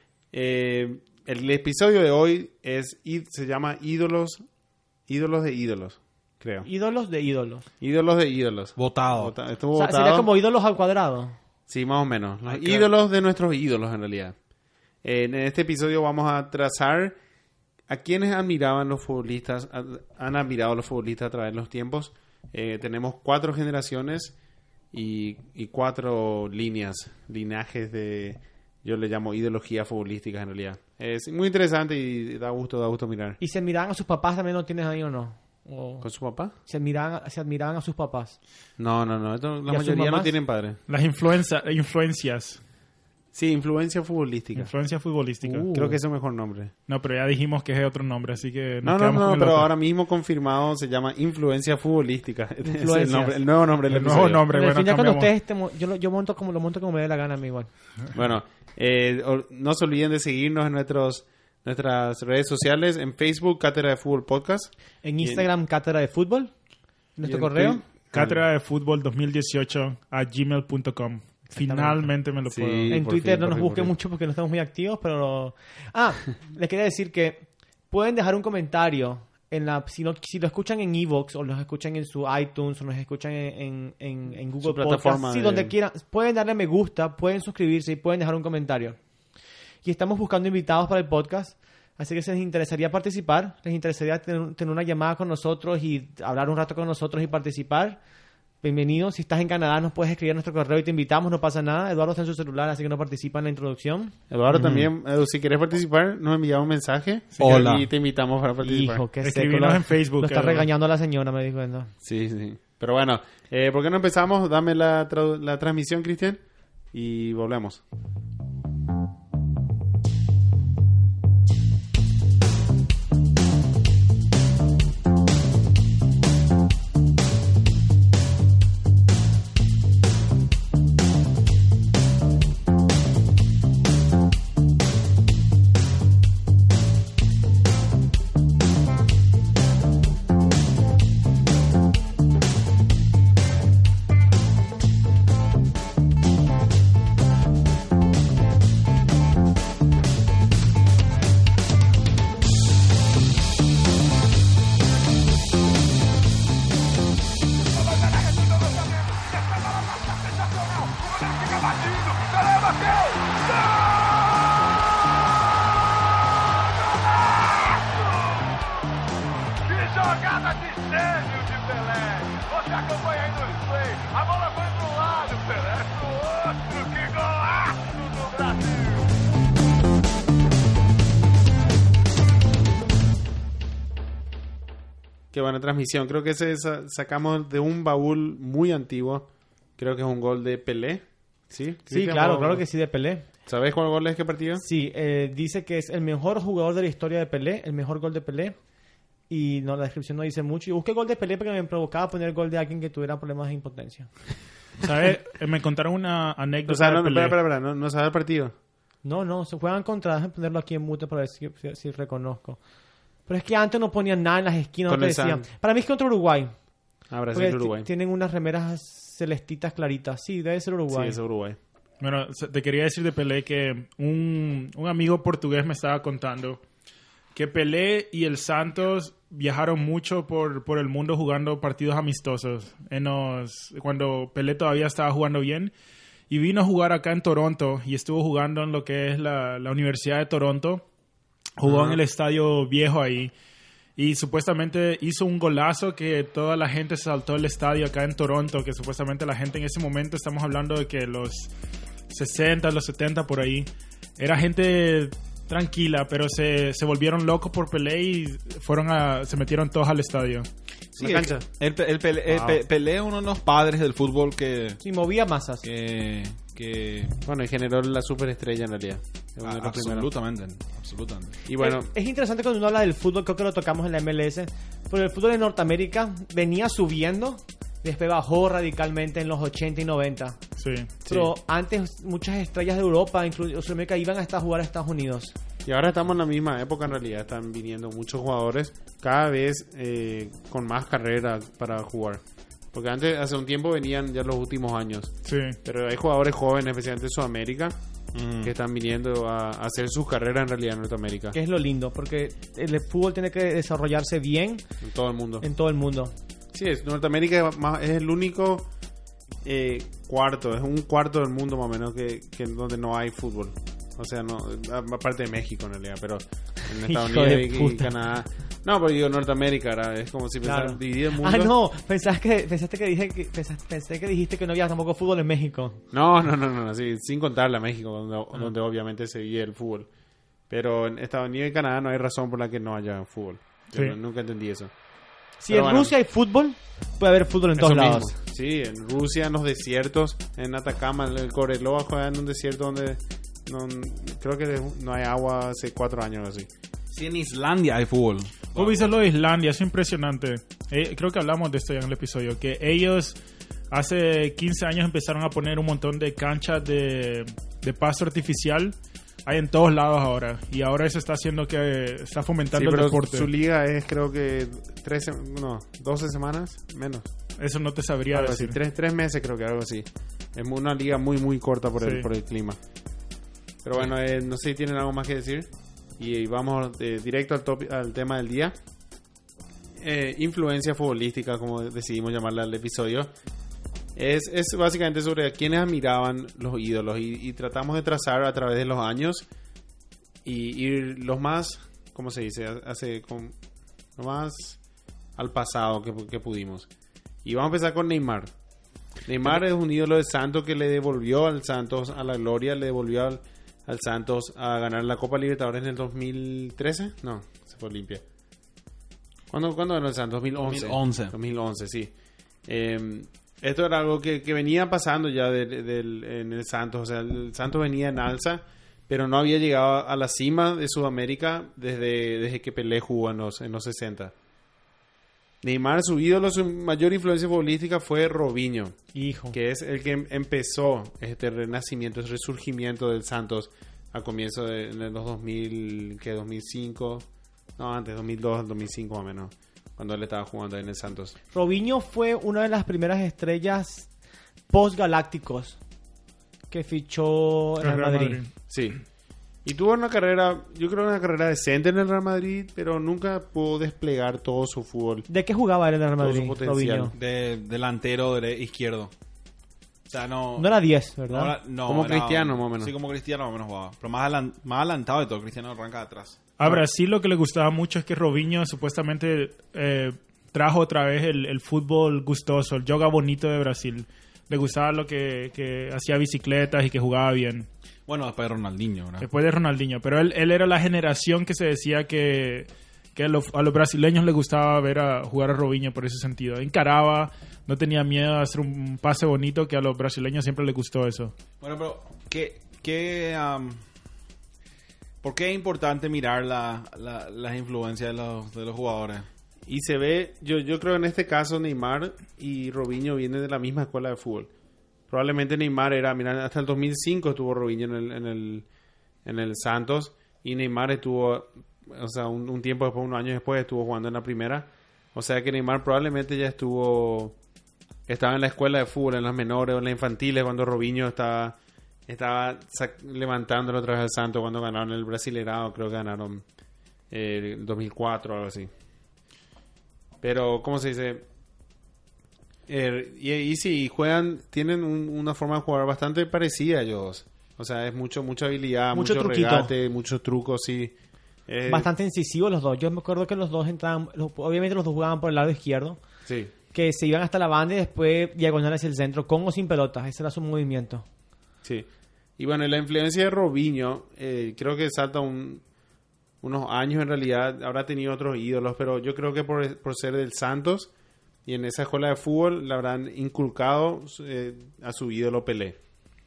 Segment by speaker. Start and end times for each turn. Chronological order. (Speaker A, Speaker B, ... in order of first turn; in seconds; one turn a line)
Speaker A: 0.3-4.4
Speaker A: 5.1-6.7
Speaker B: 6.6-7.7
Speaker A: 7.8-10.3
Speaker C: 8.8-9.3
Speaker B: 9.7-11.3
Speaker A: 11.7-14.3
Speaker C: 12.5-12.9
Speaker A: 15.0-17.2
Speaker A: 17.9-24.4
Speaker A: 24.9-33.4
Speaker B: 33.4-36.0
Speaker A: 36.0-36.5
Speaker B: 36.6-38.4
Speaker A: 38.8-40.8
Speaker B: 39.7-40.3
Speaker D: 40.9-42.6
Speaker A: 43.3-44.7
Speaker D: 44.5-45.8
Speaker B: 45.4-46.0
Speaker A: 45.7-46.7
Speaker D: 46.9-49.7
Speaker A: 48.8-54.4
Speaker B: 52.6-53.4
Speaker D: 53.9-55.3
Speaker B: 54.0-57.7
Speaker A: 58.1-65.5
Speaker B: 65.0-66.5
Speaker B: 67.2-67.8
Speaker A: 67.2-68.4
Speaker D: 68.1-73.0
Speaker B: 71.5-72.1
Speaker A: 72.4-73.9
Speaker B: 72.9-89.0
Speaker A: 84.6-85.7
Speaker B: 89.8-98.0
Speaker B: 98.6-104.1
Speaker A: 104.3-109.0
Speaker C: 104.5-104.9
Speaker C: 107.4-107.9
Speaker B: 108.6-111.9
Speaker D: 109.2-110.7
Speaker A: 112.0-116.4
Speaker A: 116.9-117.8
Speaker E: 157.6-164.5
Speaker E: 166.7-168.8
Speaker E: 169.6-179.1
Speaker A: 185.3-192.6
Speaker B: 191.9-193.2
Speaker A: 193.4-194.6
Speaker B: 194.6-198.5
Speaker B: 199.3-204.1
Speaker D: 204.8-207.4
Speaker A: 206.7-208.5
Speaker B: 209.0-212.6
Speaker B: 213.3-216.5
Speaker A: 214.9-215.4
Speaker A: 217.1-217.9
Speaker B: 217.3-221.2
Speaker A: 220.9-221.6
Speaker D: 222.0-226.6
Speaker D: 227.3-235.7
Speaker D: 236.3-240.8
Speaker D: 241.6-243.3
Speaker C: 241.7-241.9
Speaker D: 244.0-251.5
Speaker D: 252.1-260.5
Speaker A: 260.9-261.4
Speaker C: 260.9-264.8
Speaker A: 262.3-262.6
Speaker B: 264.8-265.6
Speaker C: 265.6-267.2
Speaker A: 267.2-270.1
Speaker C: 269.4-271.4
Speaker A: 271.4-271.9
Speaker B: 271.6-280.4
Speaker D: 280.6-280.9
Speaker B: 281.0-285.3
Speaker A: 285.6-292.2
Speaker A: 292.7-295.1
Speaker D: 295.2-295.6
Speaker A: 295.6-297.8
Speaker C: 298.1-298.5
Speaker A: 298.4-301.4
Speaker B: 301.3-304.6
Speaker A: 304.8-305.4
Speaker B: 305.4-306.1
Speaker A: 306.5-308.7
Speaker A: 309.4-321.5
Speaker B: 316.6-317.9
Speaker B: 320.4-325.8
Speaker A: 325.9-329.9
Speaker A: 330.5-334.7
Speaker B: 335.4-338.1
Speaker A: 335.5-335.9
Speaker A: 337.6-346.5
Speaker C: 346.9-348.9
Speaker D: 348.5-353.2
Speaker D: 353.7-358.7
Speaker D: 359.2-363.3
Speaker A: 362.5-367.1
Speaker D: 367.4-368.6
Speaker A: 368.1-372.6
Speaker D: 371.8-372.1
Speaker A: 373.6-378.6
Speaker A: 379.8-383.1
Speaker A: 383.9-389.2
Speaker A: 390.2-393.3
Speaker A: 394.0-394.6
Speaker A: 395.2-396.7
Speaker A: 397.2-398.3
Speaker A: 399.1-408.0
Speaker A: 409.3-411.9
Speaker C: 410.4-411.1
Speaker A: 412.4-424.1
Speaker A: 425.4-428.8
Speaker B: 428.9-429.4
Speaker A: 429.3-437.1
Speaker A: 437.6-441.1
Speaker B: 441.3-443.9
Speaker B: 444.5-445.6
Speaker B: 446.5-448.2
Speaker D: 447.6-448.3
Speaker A: 448.5-448.8
Speaker A: 449.4-455.1
Speaker B: 455.1-456.9
Speaker A: 456.0-456.9
Speaker C: 456.9-458.9
Speaker C: 459.9-466.2
Speaker B: 460.4-461.4
Speaker A: 461.6-462.7
Speaker D: 466.4-477.5
Speaker C: 477.9-479.1
Speaker D: 479.0-491.1
Speaker C: 491.4-493.6
Speaker C: 495.0-499.1
Speaker A: 499.5-504.3
Speaker A: 504.9-508.4
Speaker A: 509.0-517.1
Speaker A: 517.9-526.2
Speaker A: 526.9-528.5
Speaker A: 530.0-531.0
Speaker A: 532.5-540.8
Speaker B: 538.7-539.5
Speaker A: 541.3-541.7
Speaker B: 541.5-545.8
Speaker A: 546.0-546.3
Speaker B: 546.5-550.8
Speaker A: 552.2-555.4
Speaker A: 556.2-560.7
Speaker A: 561.2-565.6